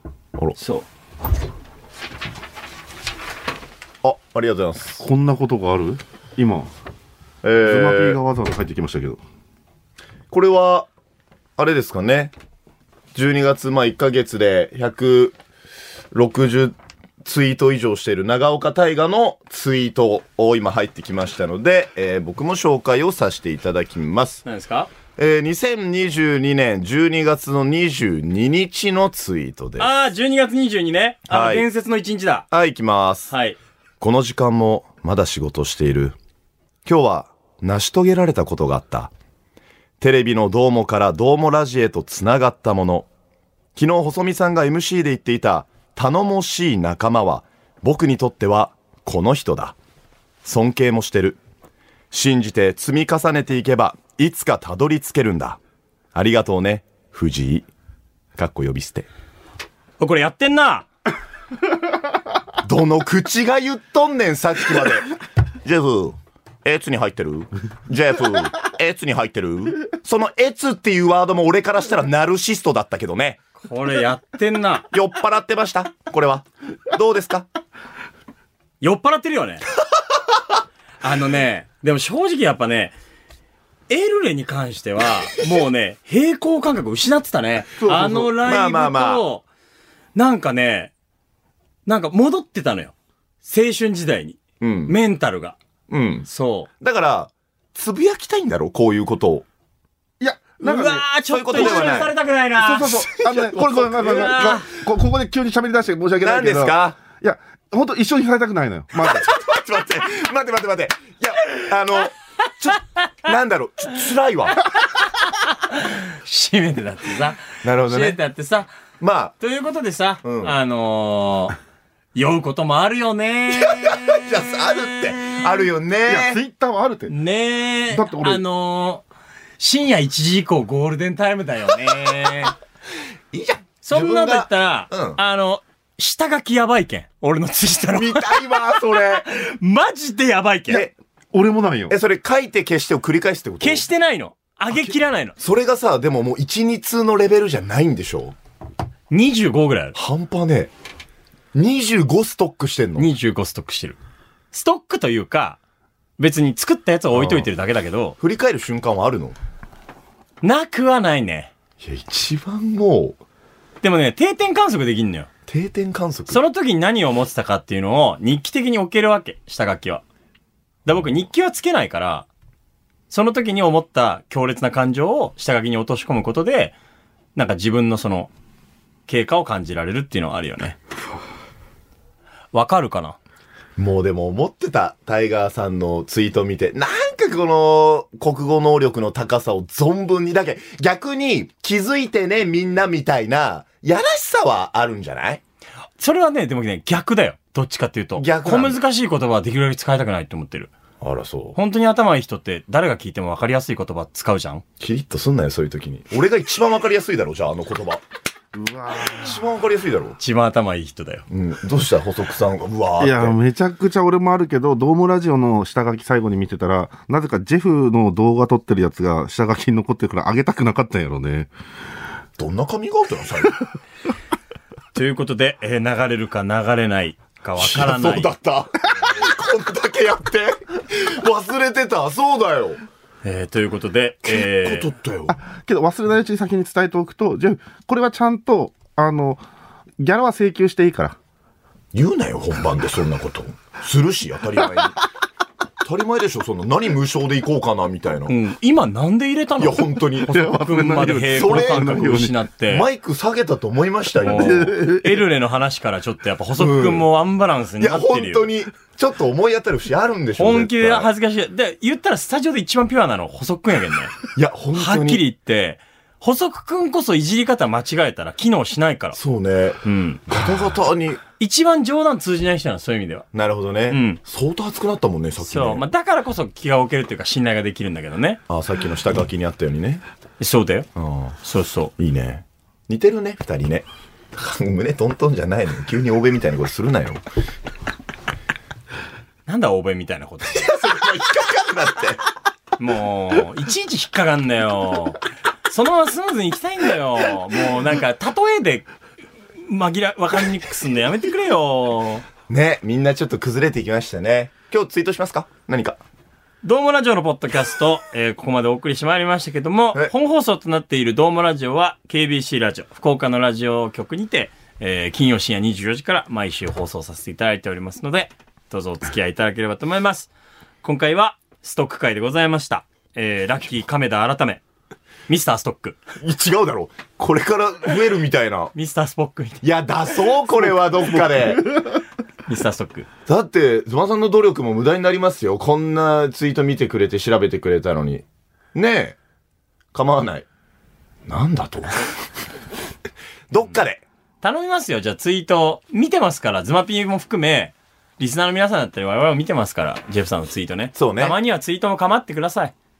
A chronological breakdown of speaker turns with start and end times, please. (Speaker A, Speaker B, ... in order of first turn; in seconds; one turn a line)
Speaker A: 0.6-0.8
Speaker B: 4.0-5.0
Speaker C: 5.0-6.7
Speaker B: 7.4-8.2
Speaker C: 7.6-9.2
Speaker B: 10.3-10.9
Speaker B: 11.6-12.3
Speaker B: 13.1-15.3
Speaker B: 16.1-24.4
Speaker A: 24.4-24.9
Speaker B: 25.2-29.9
Speaker A: 29.8-32.5
Speaker B: 31.3-31.6
Speaker B: 32.5-33.3
Speaker A: 33.3-33.6
Speaker B: 34.0-36.1
Speaker B: 36.8-39.1
Speaker B: 40.0-43.1
Speaker B: 43.7-49.7
Speaker B: 50.4-51.4
Speaker B: 52.1-55.6
Speaker B: 56.1-57.7
Speaker B: 58.4-59.1
Speaker A: 60.0-60.9
Speaker B: 62.6-65.1
Speaker B: 65.6-73.4
Speaker A: 73.6-74.9
Speaker B: 74.9-77.5
Speaker A: 78.8-79.7
Speaker A: 81.0-82.9
Speaker A: 83.9-89.4
Speaker C: 87.8-88.3
Speaker B: 88.4-89.2
Speaker A: 90.1-90.9
Speaker A: 91.8-95.6
Speaker B: 94.6-95.0
Speaker B: 95.9-96.3
Speaker A: 96.2-96.7
Speaker B: 96.8-99.4
Speaker C: 100.2-101.9
Speaker A: 100.6-103.1
Speaker B: 101.2-102.1
Speaker C: 102.6-109.3
Speaker B: 103.2-104.6
Speaker A: 104.0-104.7
Speaker B: 106.2-107.0
Speaker B: 109.0-114.6
Speaker A: 115.0-118.7
Speaker B: 117.6-118.2
Speaker B: 119.0-119.3
Speaker A: 119.4-121.5
Speaker B: 120.2-120.5
Speaker A: 122.1-124.0
Speaker B: 123.5-126.4
Speaker C: 126.0-127.1
Speaker A: 127.1-129.0
Speaker C: 127.9-128.4
Speaker A: 129.6-132.5
Speaker B: 133.3-135.2
Speaker A: 133.8-140.9
Speaker B: 137.9-139.3
Speaker B: 140.7-140.9
Speaker C: 141.3-141.9
Speaker B: 141.9-143.8
Speaker A: 143.6-145.3
Speaker B: 144.7-148.3
Speaker A: 149.1-149.9
Speaker B: 149.9-150.7
Speaker B: 151.5-153.1
Speaker A: 153.0-154.0
Speaker A: 154.5-155.6
Speaker A: 156.2-158.2
Speaker B: 157.1-157.5
Speaker B: 158.2-159.3
Speaker A: 160.4-161.5
Speaker B: 161.8-163.2
Speaker A: 163.8-165.3
Speaker B: 165.5-166.4
Speaker A: 166.3-170.0
Speaker A: 170.8-172.3
Speaker A: 173.1-176.8
Speaker A: 177.3-178.3
Speaker A: 179.1-180.8
Speaker A: 182.5-183.2
Speaker B: 183.8-195.4
Speaker A: 196.0-200.7
Speaker B: 198.2-198.8
Speaker B: 201.0-201.6
Speaker A: 201.5-204.6
Speaker B: 204.8-208.0
Speaker C: 208.5-209.4
Speaker B: 209.0-210.2
Speaker A: 210.2-211.2
Speaker B: 211.3-213.4
Speaker C: 213.0-221.5
Speaker B: 222.4-223.6
Speaker A: 224.9-228.3
Speaker B: 227.6-232.8
Speaker A: 233.2-234.9
Speaker B: 234.2-235.3
Speaker C: 235.3-239.4
Speaker C: 240.0-241.2
Speaker B: 241.9-245.0
Speaker B: 245.8-248.3
Speaker A: 248.3-252.8
Speaker B: 249.6-250.3
Speaker C: 250.2-252.3
Speaker B: 251.3-254.7
Speaker A: 254.2-258.5
Speaker C: 254.2-255.2
Speaker B: 256.6-257.1
Speaker B: 257.8-261.1
Speaker A: 260.4-264.1
Speaker B: 264.3-265.2
Speaker A: 264.7-269.2
Speaker B: 269.1-271.2
Speaker A: 269.8-270.2
Speaker A: 271.4-273.3
Speaker B: 273.3-275.8
Speaker A: 273.9-274.2
Speaker A: 275.4-278.4
Speaker B: 278.5-280.0
Speaker A: 280.4-280.9
Speaker B: 280.9-281.4
Speaker A: 281.4-281.9
Speaker B: 282.0-287.2
Speaker A: 289.5-290.7
Speaker B: 290.5-292.2
Speaker A: 292.8-298.9
Speaker A: 299.6-302.2
Speaker B: 302.5-306.0
Speaker A: 306.6-320.3
Speaker A: 320.8-324.6
Speaker A: 325.3-326.0
Speaker B: 326.2-328.7
Speaker A: 328.7-329.6
Speaker B: 329.6-331.7
Speaker A: 332.4-333.1
Speaker B: 333.2-339.2
Speaker B: 339.9-340.4
Speaker B: 341.2-342.1
Speaker B: 343.5-344.0
Speaker A: 344.4-352.7
Speaker B: 350.9-351.4